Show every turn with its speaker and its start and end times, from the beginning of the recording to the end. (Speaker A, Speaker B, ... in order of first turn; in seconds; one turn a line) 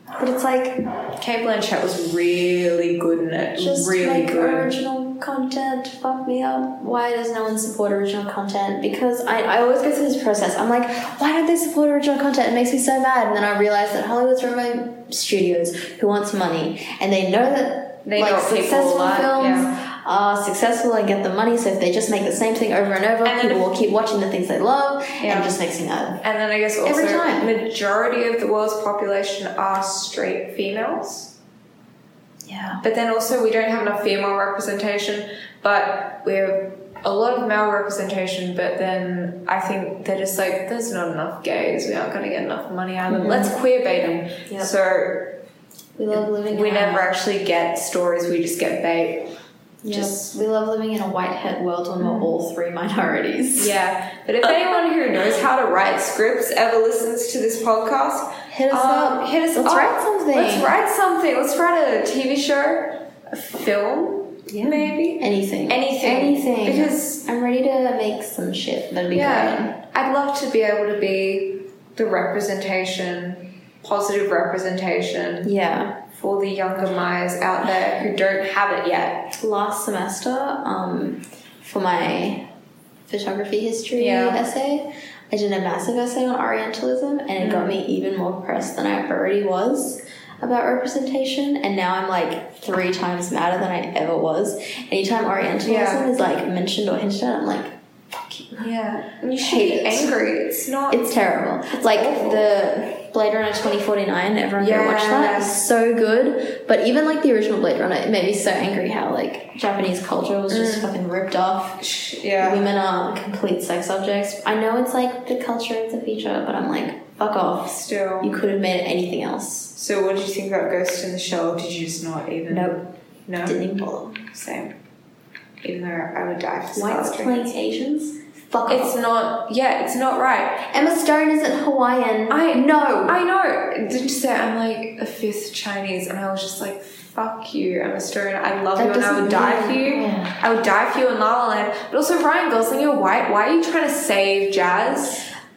Speaker A: 0.1-0.8
Speaker B: 1.2-4.7
Speaker A: 3.6-26.2
Speaker B: 18.1-19.8
Speaker B: 23.2-23.7
Speaker B: 25.2-25.6
Speaker B: 26.2-31.3
Speaker A: 26.9-27.5
Speaker A: 32.5-32.8
Speaker B: 32.8-45.4
Speaker A: 43.1-43.5
Speaker A: 44.5-44.7
Speaker A: 46.0-47.1
Speaker B: 46.1-49.3
Speaker A: 49.8-53.8
Speaker B: 49.9-50.3
Speaker B: 52.0-52.3
Speaker B: 53.6-67.3
Speaker A: 58.5-60.7
Speaker A: 64.5-69.8
Speaker B: 69.1-75.5
Speaker A: 75.4-76.0
Speaker B: 76.1-79.3
Speaker A: 79.4-82.5
Speaker A: 83.1-98.7
Speaker B: 84.0-84.4
Speaker B: 87.4-87.8
Speaker B: 95.6-96.1
Speaker B: 98.6-101.1
Speaker A: 99.4-100.2
Speaker A: 100.9-111.8
Speaker B: 101.7-102.5
Speaker B: 104.6-105.6
Speaker B: 110.5-110.9
Speaker B: 111.8-112.6
Speaker A: 112.4-119.7
Speaker B: 117.7-118.5
Speaker B: 119.8-123.6
Speaker A: 122.5-122.8
Speaker A: 123.4-124.2
Speaker B: 124.2-124.7
Speaker B: 125.6-127.5
Speaker A: 126.7-129.0
Speaker B: 128.7-130.8
Speaker A: 130.7-133.2
Speaker B: 132.3-145.3
Speaker A: 138.8-140.4